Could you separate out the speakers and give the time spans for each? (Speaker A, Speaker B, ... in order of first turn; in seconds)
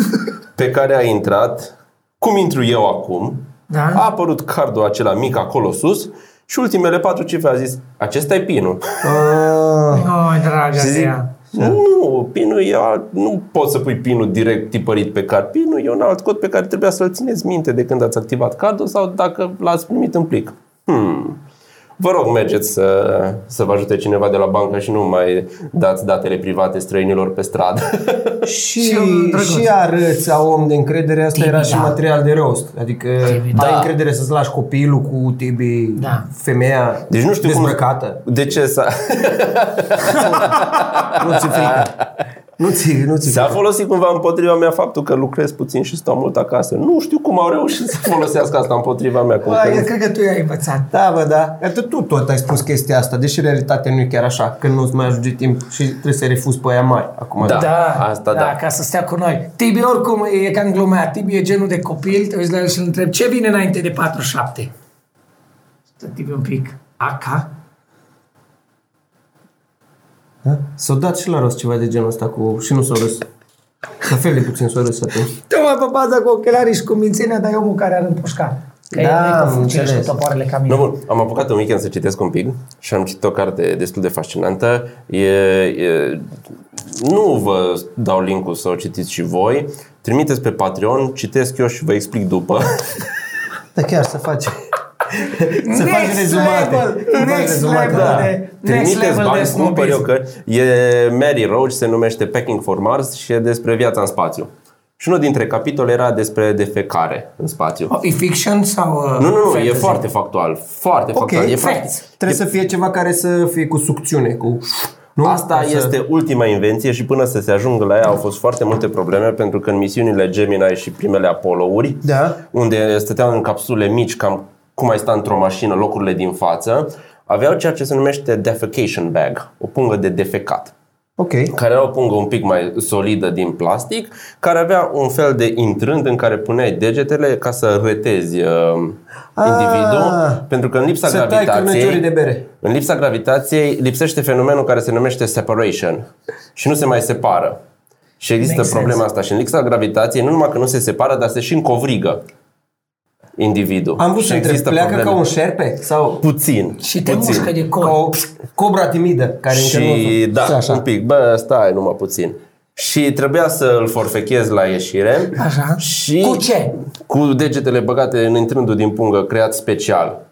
Speaker A: 0.6-9.1, 10.8-21.4, 22.0-28.3, 33.5-33.9, 37.1-41.9, 43.2-49.9, 57.4-58.5, 80.7-92.8, 97.9-107.9, 109.2-112.4, 115.2-130.7, 131.5-142.0, 142.6-147.6, 148.2-152.2, 153.4-155.2, 156.2-157.5, 159.5-166.5, 167.0-170.2
Speaker B: 3.7-4.0, 9.9-11.3, 28.8-29.7, 31.3-31.9, 33.2-33.7, 36.0-36.3, 49.4-50.9, 57.4-64.7, 66.0-67.5, 75.5-80.9, 95.6-100.0, 107.9-110.0, 111.6-112.0, 148.4-149.0, 156.8-158.0, 165.3-166.7
Speaker C: 9.0-10.1, 28.4-38.2, 40.2-40.6, 41.1-41.9, 42.6-43.6, 50.9-57.7, 70.4-73.3, 74.0-75.3, 78.9-80.1, 93.7-94.5, 95.1-98.3, 111.1-111.6, 112.2-115.9, 122.0-122.4, 131.2-131.5, 139.4-140.4, 141.0-142.4, 154.0-156.2, 157.8-160.8